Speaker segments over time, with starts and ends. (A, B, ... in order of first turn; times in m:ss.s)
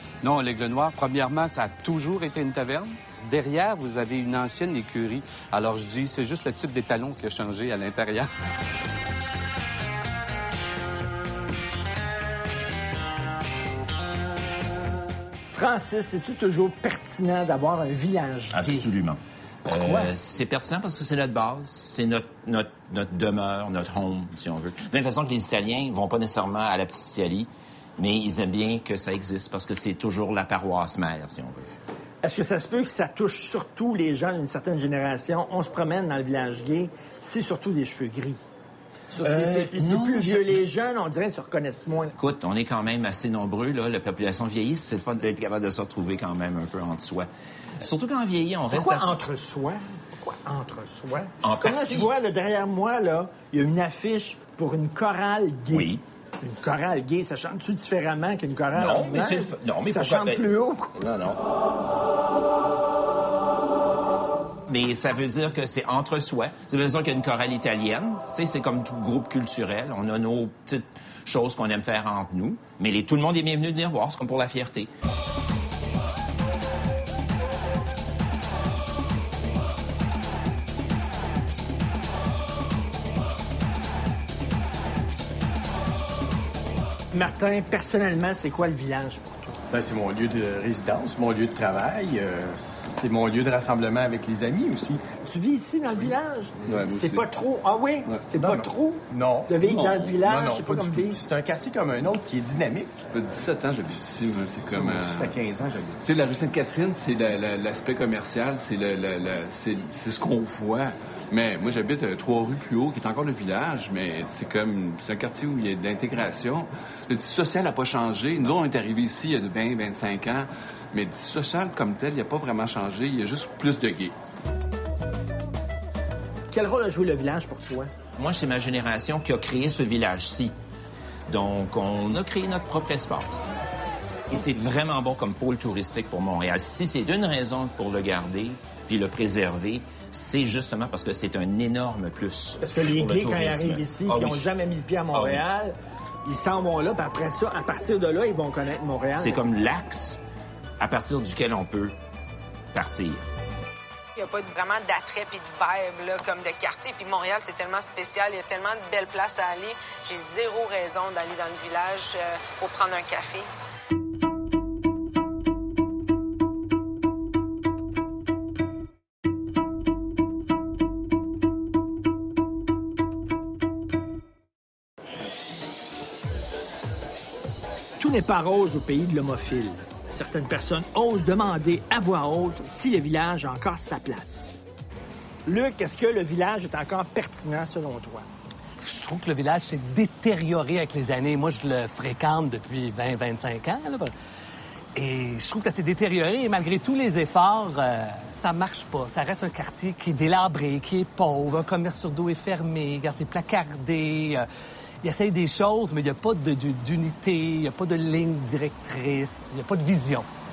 0:00.2-0:08.3 A
0:15.4-0:18.9 B
0:18.5-0:31.7 C
0:19.7-0:20.1 B
0:32.2-0:38.4 B
0:39.1-0:42.1 B
0:39.2-0:39.7 D
0:42.2-0:49.2 C
0:48.7-1:01.0 B
0:51.4-0:52.1 C
0:55.7-0:56.0 C
0:58.7-1:01.4 C
1:04.7-1:14.9 C
1:27.1-1:29.6 B
1:29.7-1:35.1 E
1:35.2-1:41.2 B
1:36.7-1:37.3 F
1:38.3-1:42.9 E
1:43.1-1:45.3 F
1:44.5-1:46.2 E
1:46.0-2:04.2 F
2:06.5-2:07.9 B
2:08.2-2:10.6 C
2:11.3-2:13.4 C
2:14.3-2:24.4 C
2:22.6-2:29.4 B
2:25.1-2:25.4 C
2:29.2-2:30.2 C
2:30.8-2:31.9 C
2:32.7-2:33.2 C
2:34.2-2:43.5 G
2:58.0-3:04.6 B
3:05.5-3:08.3 B
3:08.8-3:14.1 D
3:15.0-3:24.5 D
3:25.0-3:30.3 D